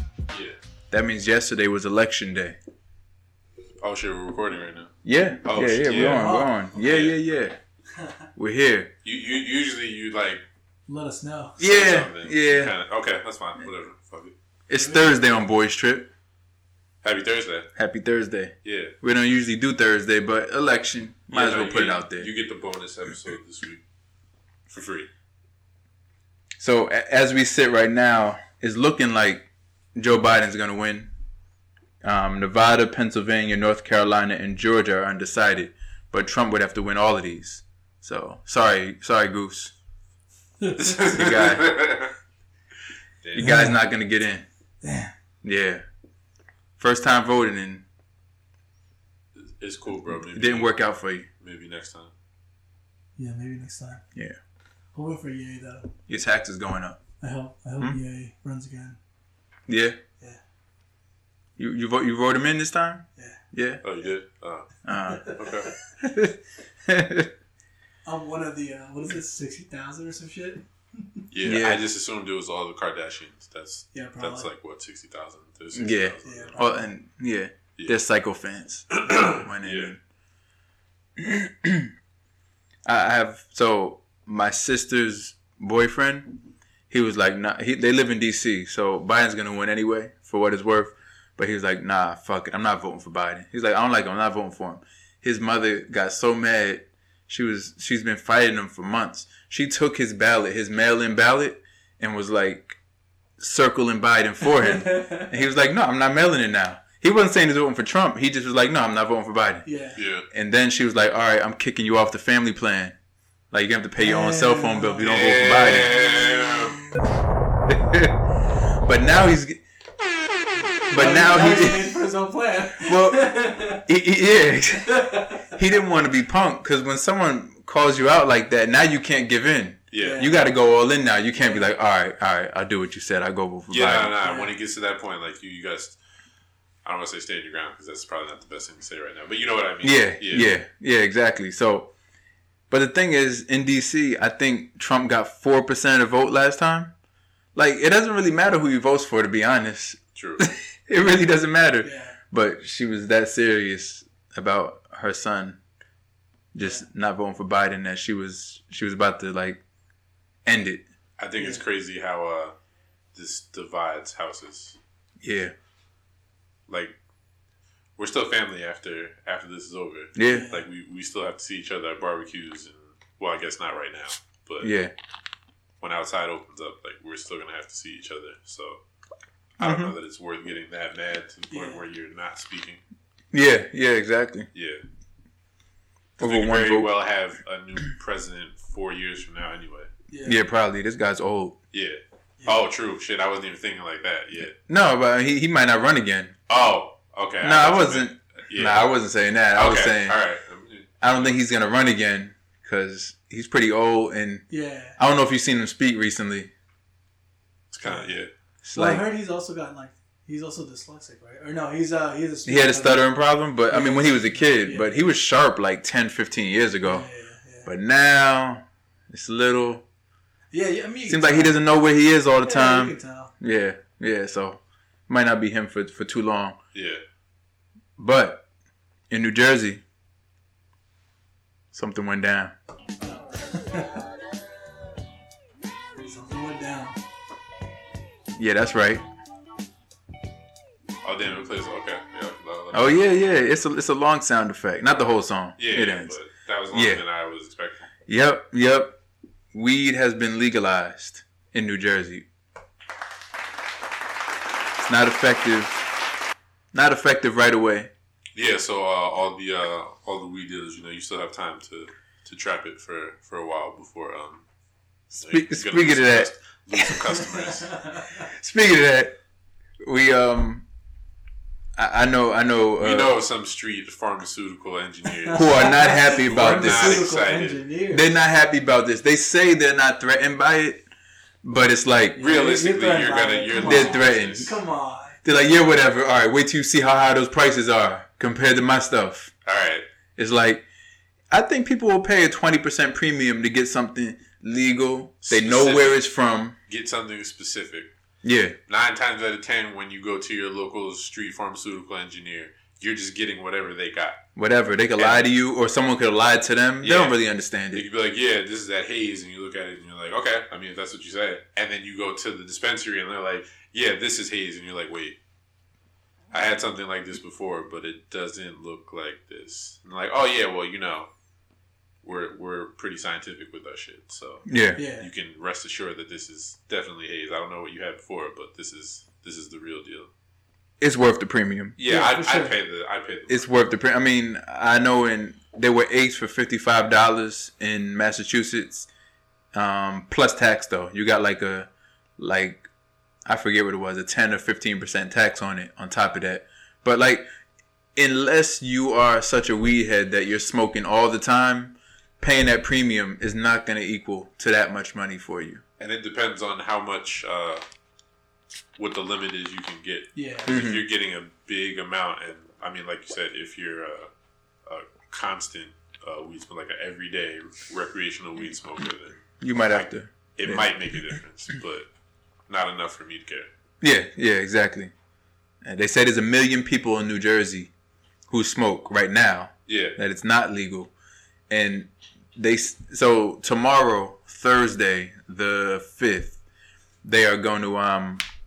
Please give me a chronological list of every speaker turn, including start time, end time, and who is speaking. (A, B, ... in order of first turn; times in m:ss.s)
0:00.3-0:00.6 A
0:00.9-0:02.6 B
0:03.8-0:07.2 A
0:05.0-0:07.6 B
0:05.9-0:06.7 C
0:08.0-0:08.3 C
0:08.4-0:08.9 B
0:09.0-0:10.4 A
0:10.9-0:11.6 C
0:11.6-0:12.7 B
0:11.6-0:14.3 A
0:14.7-0:16.1 B
0:14.7-0:15.2 C
0:17.0-0:17.7 A
0:17.8-0:22.3 B
0:18.6-0:18.9 A
0:21.3-0:23.8 A
0:24.7-0:25.1 A
0:26.6-0:31.1 B
0:32.0-0:39.7 B
0:40.8-0:42.1 A
0:41.0-0:41.8 B
0:43.2-0:43.6 A
0:43.3-0:44.4 B
0:43.4-0:43.8 C
0:44.8-0:45.1 C
0:45.4-0:45.8 B
0:46.8-0:47.8 B
0:49.4-0:50.7 A
0:50.3-0:51.3 B
0:51.4-0:52.1 A
0:53.2-0:54.0 C
0:54.9-0:55.9 C
0:56.1-0:57.0 B
0:57.2-0:59.0 C
0:59.7-1:00.0 B
1:01.6-1:03.8 B
1:03.8-1:04.7 A
1:04.8-1:05.3 B
1:05.1-1:05.4 C
1:05.3-1:05.7 A
1:05.9-1:07.3 B
1:08.0-1:11.2 C
1:11.3-1:16.6 A
1:11.4-1:11.8 B
1:13.9-1:14.5 C
1:15.7-1:20.0 B
1:16.2-1:16.9 C
1:19.0-1:19.9 A
1:21.2-1:21.9 B
1:22.8-1:42.8 B
1:43.4-1:49.6 B
1:44.4-1:45.3 C
1:49.6-1:50.0 C
1:50.0-1:50.2 A
1:50.3-1:52.9 B
1:53.5-1:56.0 B
1:54.0-1:55.0 C
1:55.0-1:56.8 A
1:57.7-1:58.2 B
1:58.8-1:59.6 B
2:00.9-2:01.9 B
2:00.9-2:03.8 C
2:02.8-2:14.2 B
2:04.9-2:05.6 C
2:09.9-2:10.3 A
2:10.0-2:10.4 C
2:11.4-2:11.7 C
2:13.7-2:16.0 A
2:14.2-2:14.5 C
2:16.8-2:20.5 A
2:19.8-2:21.9 B
2:22.7-2:26.9 B
2:27.5-2:35.6 B
2:30.1-2:30.4 A
2:31.8-2:32.2 C
2:36.5-2:39.6 B
2:40.4-2:40.8 B
2:41.2-2:42.6 A
2:41.4-2:41.6 C
2:43.1-2:44.8 A
2:45.2-2:45.5 B
2:46.7-2:46.9 A
2:48.0-2:54.7 A
2:50.2-2:50.5 B
2:50.2-2:50.6 C
2:54.6-2:54.9 B
2:55.8-2:58.8 A
2:59.6-3:02.8 A
2:59.6-2:59.9 B
3:01.5-3:01.8 C
3:03.3-3:04.5 B
3:04.5-3:04.8 A
3:06.2-3:06.9 B
3:06.2-3:09.9 A
3:10.1-3:10.4 C
3:10.2-3:11.6 B
3:11.7-3:14.5 A
3:14.6-3:16.4 B
3:16.5-3:18.8 A
3:17.4-3:20.2 B
3:19.6-3:21.4 A
3:21.0-3:24.4 B
3:24.5-3:25.0 C
3:25.0-3:26.5 B
3:27.7-3:28.3 A
3:27.8-3:28.2 C
3:28.6-3:29.0 B
3:28.7-3:33.1 C
3:32.4-3:37.0 B
3:33.7-3:34.9 C
3:36.8-3:37.7 C
3:37.6-3:39.8 B
3:40.5-3:41.9 C
3:41.1-3:46.6 B
3:42.4-3:43.3 C
3:46.7-3:47.0 A
3:48.0-3:48.4 B
3:49.1-3:49.8 B
3:51.7-3:52.5 B
3:53.5-3:54.0 C
3:56.0-3:57.0 C
3:58.3-3:59.0 B
4:01.0-4:03.0 A
4:02.7-4:06.2 B
4:05.6-4:07.9 A
4:06.7-4:07.0 B
4:08.1-4:09.0 B
4:09.5-4:12.2 B
4:14.8-4:15.8 B
4:16.7-4:17.9 B
4:18.3-4:24.4 A
4:25.1-4:27.7 A
4:25.2-4:27.2 B
4:27.4-4:28.2 C
4:28.3-4:29.1 B
4:29.8-4:30.6 B
4:31.8-4:33.2 B
4:32.8-4:37.6 A
4:35.1-4:38.1 C
4:35.3-4:37.1 B
4:37.9-4:40.8 B
4:41.4-4:42.2 B
4:42.2-4:45.2 C
4:42.2-4:44.5 A
4:43.6-4:44.5 B
4:45.2-4:49.3 B
4:49.4-4:49.8 A
4:50.2-4:50.6 B
4:51.3-4:56.5 B
4:55.2-4:56.0 A
4:56.7-4:57.9 A
4:58.2-4:58.6 B
4:58.7-5:04.2 A
5:04.4-5:07.8 B
5:05.0-5:05.3 A
5:06.8-5:07.2 A
5:07.7-5:15.2 A
5:16.3-5:21.1 A
5:22.0-5:30.1 A
5:24.5-5:24.8 B
5:24.8-5:25.1 C
5:30.8-5:31.8 B
5:31.8-5:33.5 A
5:31.9-5:32.5 C
5:33.3-5:38.9 B
5:39.5-5:42.7 B
5:43.2-5:47.2 B
5:48.0-5:55.6 B
5:55.8-5:57.6 A
5:58.8-6:04.1 A
6:00.1-6:00.5 C
6:00.4-6:00.8 B
6:04.6-6:11.9 A
6:09.4-6:10.7 B
6:12.5-6:13.5 A
6:13.8-6:14.9 B
6:15.6-6:17.7 B
6:18.3-6:20.9 B
6:19.7-6:20.0 A
6:21.5-6:26.4 B
6:27.0-6:28.2 B